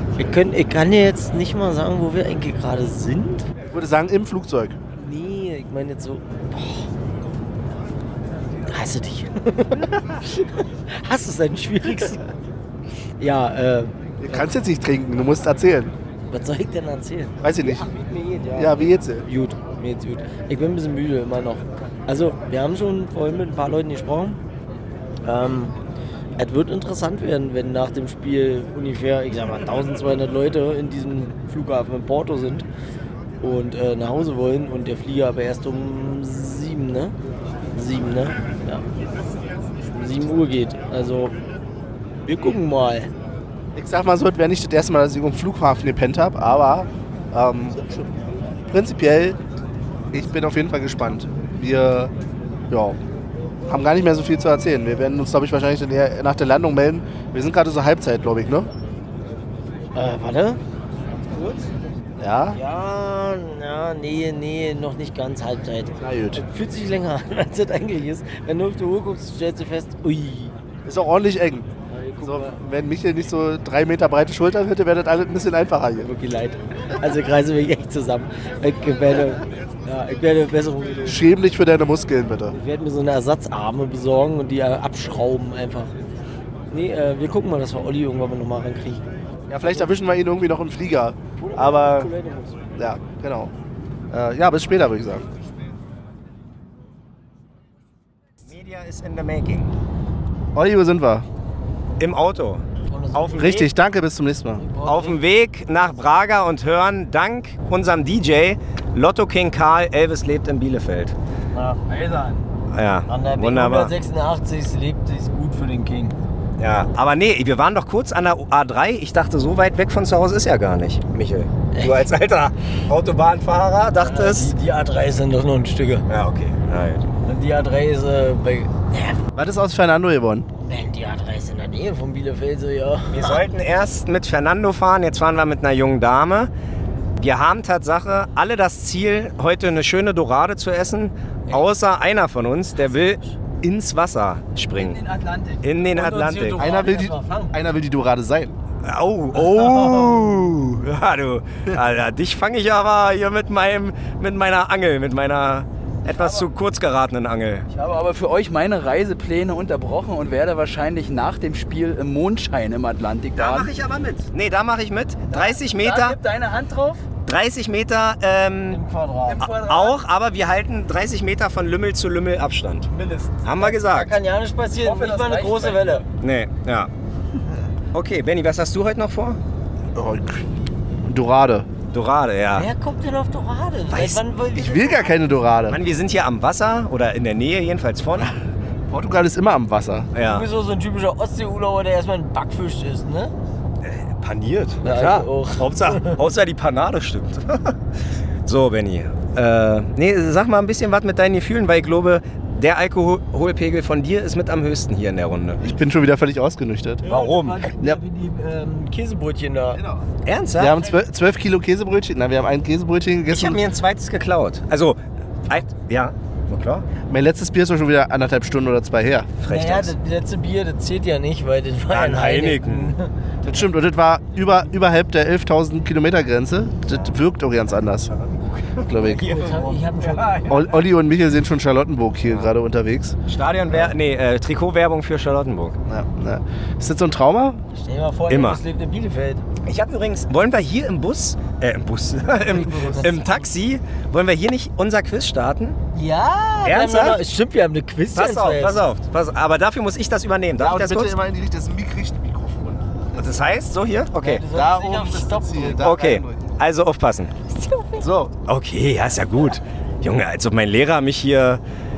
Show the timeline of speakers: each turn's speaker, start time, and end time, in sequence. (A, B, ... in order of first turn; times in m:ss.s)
0:00.2-0:03.5 A
0:03.7-0:04.8 B
0:05.0-0:06.9 A
0:08.7-0:12.3 A
0:13.2-0:14.6 A
0:14.2-0:15.9 B
0:16.3-0:24.4 A
0:17.4-0:17.9 B
0:18.5-0:19.2 B
0:25.2-0:25.7 A
0:26.4-0:32.6 A
0:33.4-0:37.1 A
0:37.7-0:38.8 A
0:39.9-0:41.3 A
0:42.2-0:43.1 A
0:43.7-0:48.1 B
0:48.7-0:49.4 B
0:50.1-0:52.1 B
0:52.7-0:53.0 B
0:53.6-0:58.7 B
0:59.9-1:00.6 A
1:01.3-1:01.7 A
1:02.2-1:02.6 B
1:02.5-1:10.5 A
1:06.0-1:06.4 B
1:10.8-1:11.7 B
1:11.9-1:12.6 A
1:12.2-1:16.1 B
1:16.0-1:21.2 A
1:21.0-1:22.6 B
1:22.5-1:25.9 A
1:26.7-1:29.0 A
1:29.5-1:32.1 B
1:31.4-1:32.7 A
1:32.8-1:33.5 B
1:34.1-1:35.3 B
1:38.4-1:39.7 C
1:40.5-1:41.2 B
1:42.0-1:43.6 C
1:42.9-1:43.7 A
1:43.4-1:44.6 B
1:44.6-1:45.2 A
1:44.8-1:51.1 C
1:51.5-1:51.8 A
1:51.9-1:52.5 D
1:52.7-1:53.9 C
1:53.1-1:56.2 A
1:56.6-2:04.5 C
2:01.7-2:02.0 A
2:03.9-2:06.0 A
2:06.1-2:07.0 C
2:07.2-2:09.2 A
2:09.3-2:10.5 B
2:10.6-2:13.4 A
2:13.1-2:16.5 C
2:17.2-2:25.0 C
2:22.8-2:23.4 A
2:24.7-2:25.7 D
2:25.6-2:26.6 C
2:25.9-2:27.6 A
2:26.6-2:28.6 B
2:28.8-2:37.7 C
2:29.4-2:30.5 A
2:36.1-2:36.5 D
2:37.7-2:43.7 D
2:43.4-2:46.2 C
2:45.3-2:47.1 D
2:47.2-2:48.8 C
2:48.7-2:49.4 A
2:49.2-2:50.0 D
2:49.4-2:52.9 C
2:52.9-2:53.4 D
2:53.4-2:54.1 C
2:53.5-2:56.0 A
2:54.8-2:56.0 D
2:56.2-2:56.9 C
2:57.9-2:59.4 C
2:59.9-3:00.4 B
3:01.0-3:01.7 B
3:01.9-3:02.7 C
3:02.5-3:05.1 A
3:03.9-3:04.2 C
3:04.5-3:05.8 B
3:05.7-3:08.3 C
3:08.9-3:10.1 B
3:10.1-3:10.5 C
3:10.2-3:13.3 A
3:13.8-3:17.8 C
3:14.8-3:16.2 A
3:18.4-3:25.7 C
3:25.6-3:27.0 B
3:27.0-3:29.8 A
3:27.0-3:27.8 C
3:29.7-3:33.6 B
3:30.2-3:30.8 C
3:33.3-3:36.9 C
3:37.1-3:39.3 B
3:39.4-3:39.9 C
3:39.4-3:43.7 A
3:41.9-3:42.9 C
3:43.4-3:48.1 B
3:48.2-3:48.8 C
3:48.8-3:49.5 B
3:49.0-3:50.4 A
3:49.4-3:50.7 C
3:50.4-3:53.2 B
3:53.3-3:55.8 C
3:55.9-3:57.6 B
3:57.7-3:59.4 A
3:58.3-3:58.6 C
3:59.6-4:05.8 C
4:02.5-4:03.2 A
4:05.9-4:08.8 A
4:06.6-4:07.2 C
4:08.1-4:11.1 C
4:10.6-4:13.4 B
4:13.2-4:14.4 C
4:14.2-4:15.8 A
4:14.5-4:16.6 B
4:15.8-4:17.3 C
4:17.5-4:18.1 A
4:18.0-4:18.3 B
4:18.5-4:21.6 C